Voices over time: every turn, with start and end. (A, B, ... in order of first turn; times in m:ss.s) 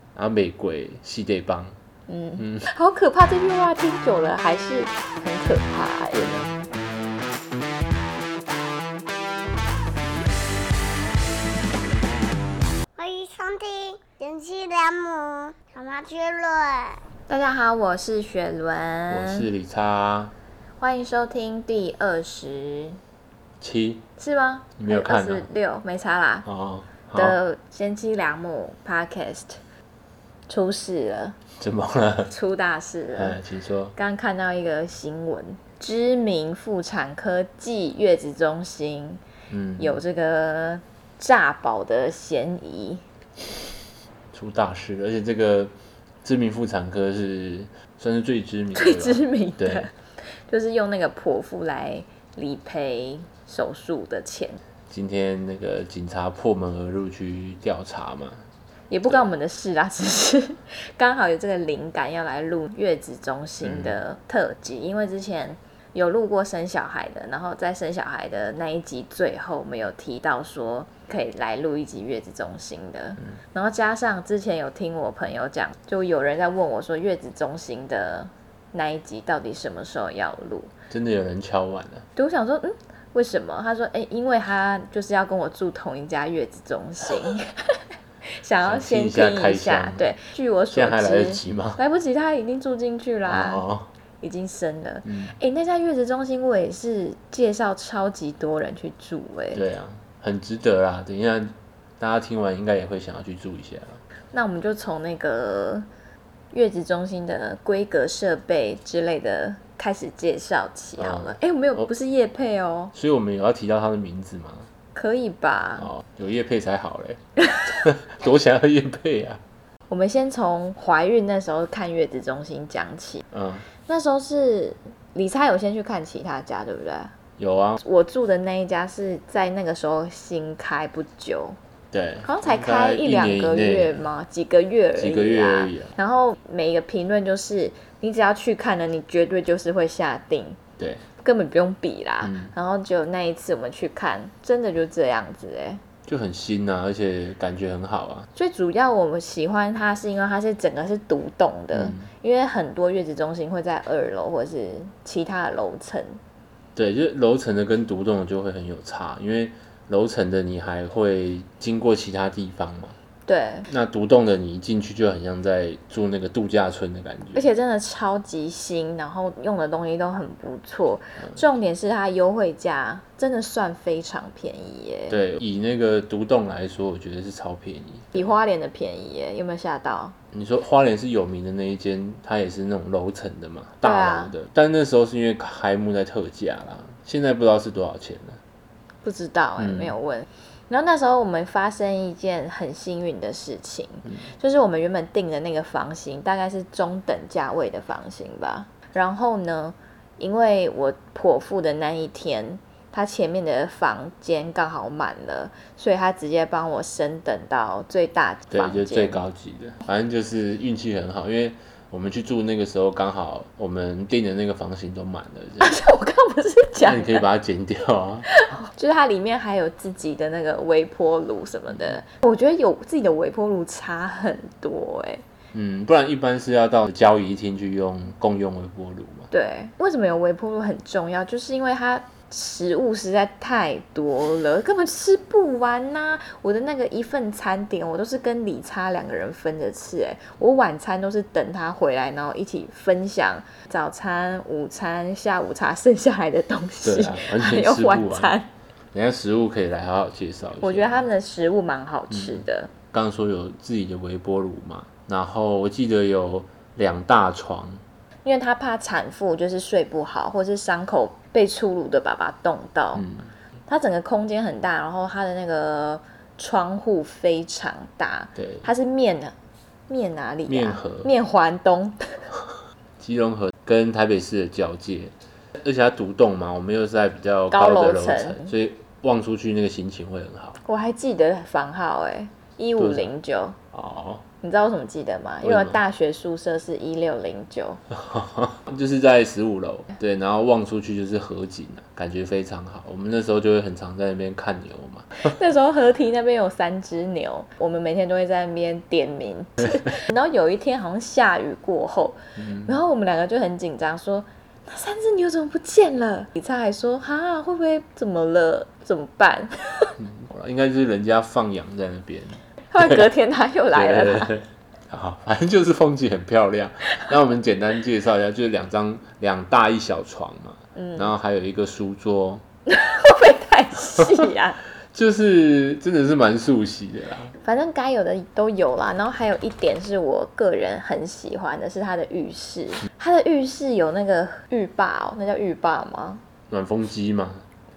0:00.2-0:01.7 A
0:02.1-0:06.4 B
0:02.4-0:02.7 A
0:13.0-0:17.0 C
0:17.3-0:19.5 B
0:19.1-0:20.3 A
0:20.8-0:23.0 B
0:23.6-0:24.0 A
0:24.2-0:26.5 B
0:24.8-0:25.5 A
0:26.4-0:27.4 A
0:27.2-0:29.6 B
0:30.5-0:31.4 B
0:31.6-0:32.3 A
0:32.3-0:33.4 B
0:33.2-0:34.0 A
0:34.0-0:39.2 B
0:39.5-0:40.0 A
0:39.8-0:43.0 B
0:44.3-0:45.7 A
0:46.2-0:49.9 A
0:48.8-0:49.9 B
0:50.5-0:54.6 B
0:54.9-0:58.4 A
0:58.9-1:20.7 B
1:03.6-1:04.0 A
1:20.9-1:22.1 A
1:22.2-1:27.8 B
1:28.4-1:33.6 B
1:28.6-1:30.1 A
1:30.7-1:31.8 A
1:33.3-1:33.9 A
1:34.2-1:39.6 B
1:35.0-1:35.4 A
1:39.5-1:44.0 A
1:44.3-1:45.9 B
1:46.5-1:52.9 B
1:51.0-1:51.9 A
1:52.9-1:54.7 A
1:55.0-1:55.9 B
1:55.8-1:59.4 A
1:59.9-2:03.2 B
2:03.3-2:03.7 A
2:03.9-2:07.1 B
2:07.4-2:07.8 A
2:07.8-2:11.6 B
2:11.9-2:14.0 A
2:12.2-2:20.6 B
2:15.0-2:15.9 A
2:20.8-2:21.0 A
2:21.2-2:25.8 B
2:22.2-2:22.5 A
2:26.1-2:28.3 A
2:28.4-2:36.2 B
2:31.7-2:32.1 A
2:36.8-2:43.0 A
2:43.3-2:43.7 B
2:43.7-2:47.5 A
2:47.4-2:55.2 B
2:55.1-2:58.3 A
2:58.1-3:00.2 B
3:00.3-3:08.4 A
3:03.8-3:04.4 B
3:09.0-3:29.2 B
3:09.6-3:09.9 A
3:28.5-3:35.8 A
3:35.6-3:37.2 B
3:36.8-3:38.3 A
3:38.3-3:45.2 B
3:45.5-3:49.3 A
3:49.3-4:08.5 B
4:06.8-4:08.4 A
4:08.9-4:11.1 A
4:10.6-4:12.7 B
4:12.1-4:17.8 A
4:18.2-4:23.0 B
4:22.9-4:23.3 A
4:23.7-4:29.4 B
4:28.4-4:28.7 A
4:29.9-4:32.2 B
4:30.5-4:31.1 A
4:33.0-4:40.6 A
4:37.5-4:38.5 B
4:40.6-4:43.6 B
4:42.8-4:43.1 A
4:43.7-4:44.2 A
4:44.4-4:47.8 B
4:45.4-4:45.8 A
4:47.9-4:55.4 A
4:55.2-5:09.9 B
5:02.4-5:02.8 A
5:10.0-5:13.1 A
5:12.7-5:14.4 B
5:13.7-5:22.4 A
5:20.8-5:21.1 B
5:22.7-5:24.6 B
5:24.9-5:27.3 A
5:27.4-5:36.2 B
5:36.5-5:37.4 A